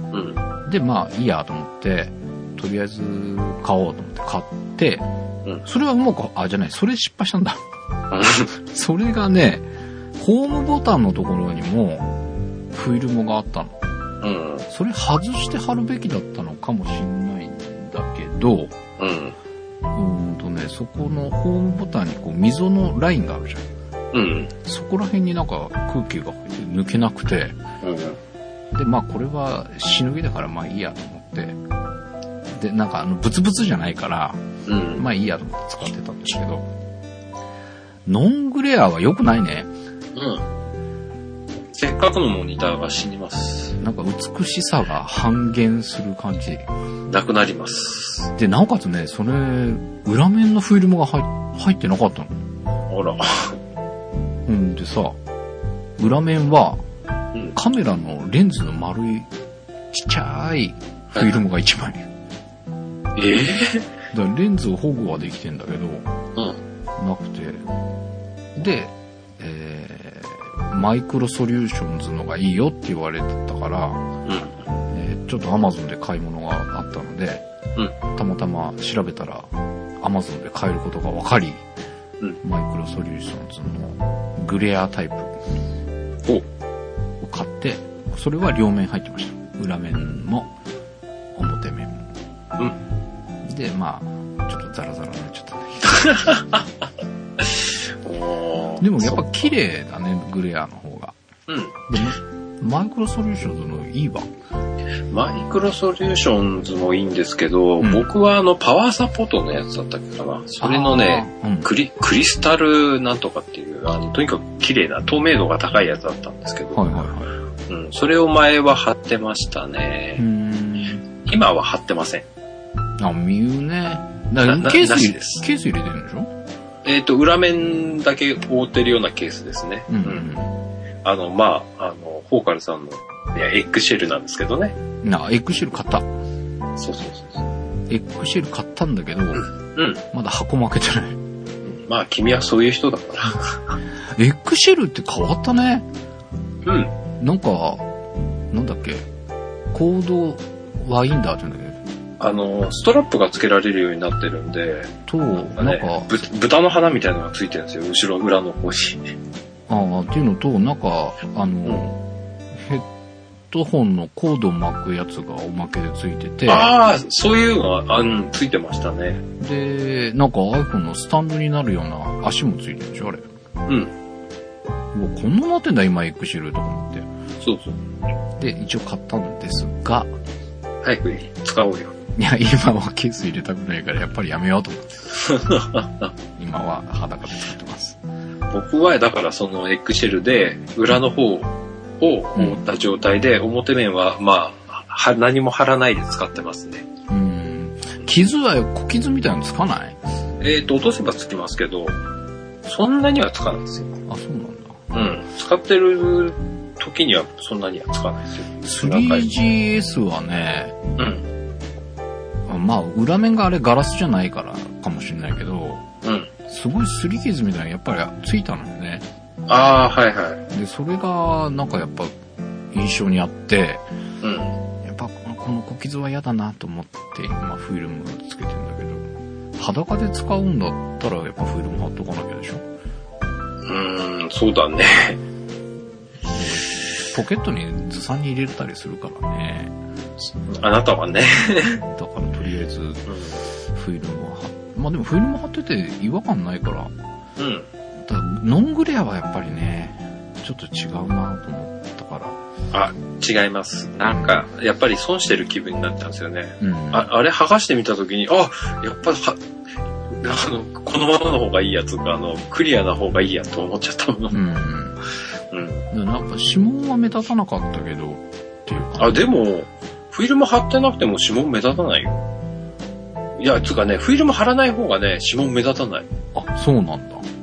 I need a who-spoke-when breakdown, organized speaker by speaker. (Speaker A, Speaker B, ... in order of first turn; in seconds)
Speaker A: 0.1-0.4, 8.1-8.5, 14.2-14.6, 19.0-19.4, 24.1-24.5, 27.8-28.2, 34.6-35.0, 40.1-40.4, 41.7-43.8, 47.1-48.3, 52.9-53.6, 63.2-63.9, 74.3-74.6, 95.9-96.6, 97.4-99.5, 101.5-101.8, 105.1-116.9, 117.7-120.2, 121.2-122.2, 124.4-125.5, 126.8-130.3, 131.0-134.7, 136.8-137.4, 139.4-140.0, 141.6-143.8, 146.7-146.9, 152.2-159.0, 166.5-169.2, 173.7-173.9, 177.4-177.8, 180.8-181.9, 185.2-186.1, 188.5-196.8, 200.4-201.9, 202.7-203.9, 204.9-209.3, 211.0-211.2, 216.0-216.3, 219.5-220.4, 224.2-224.6, 233.6-235.2, 240.2-241.8, 243.1-243.4, 247.4-247.7, 252.7-259.4, 260.2-264.4, 265.5-265.8, 269.0-272.2, 273.4-276.1
Speaker B: 0.7-5.0, 5.6-7.6, 8.5-12.1, 12.7-13.8, 14.7-18.7, 19.9-23.6, 24.6-27.6, 28.7-31.6, 32.5-34.4, 35.0-36.6, 38.0-39.7, 43.8-46.6, 48.4-52.3, 54.5-55.2, 56.0-56.8, 57.5-59.3, 59.9-62.0, 64.1-66.1, 67.0-67.6, 68.6-74.0, 74.9-77.4, 78.1-81.6, 82.4-85.3, 87.2-90.5, 91.3-92.0, 93.4-96.4, 98.8-101.1, 101.9-104.3, 107.8-108.1, 110.6-111.7, 116.7-117.3, 120.2-121.0, 123.0-126.3, 129.9-130.5, 135.0-136.1, 137.9-139.5, 140.1-141.2, 144.2-145.8, 147.2-147.8, 148.5-149.1, 149.7-151.8, 155.1-156.2, 159.7-162.0, 162.5-162.8, 163.5-166.7, 169.4-173.2, 174.9-177.1, 178.4-180.1, 182.2-185.2, 186.3-188.0, 192.3-192.6, 197.1-200.0, 204.1-204.8, 208.6-210.7, 212.5-215.8, 216.5-219.0, 220.5-222.1, 222.7-223.8, 224.8-229.1, 229.6-232.6, 236.3-239.8, 241.8-243.1, 243.7-246.9, 248.0-252.4, 254.1-254.4, 256.6-257.1, 264.3-265.0, 265.9-269.3, 276.3-277.2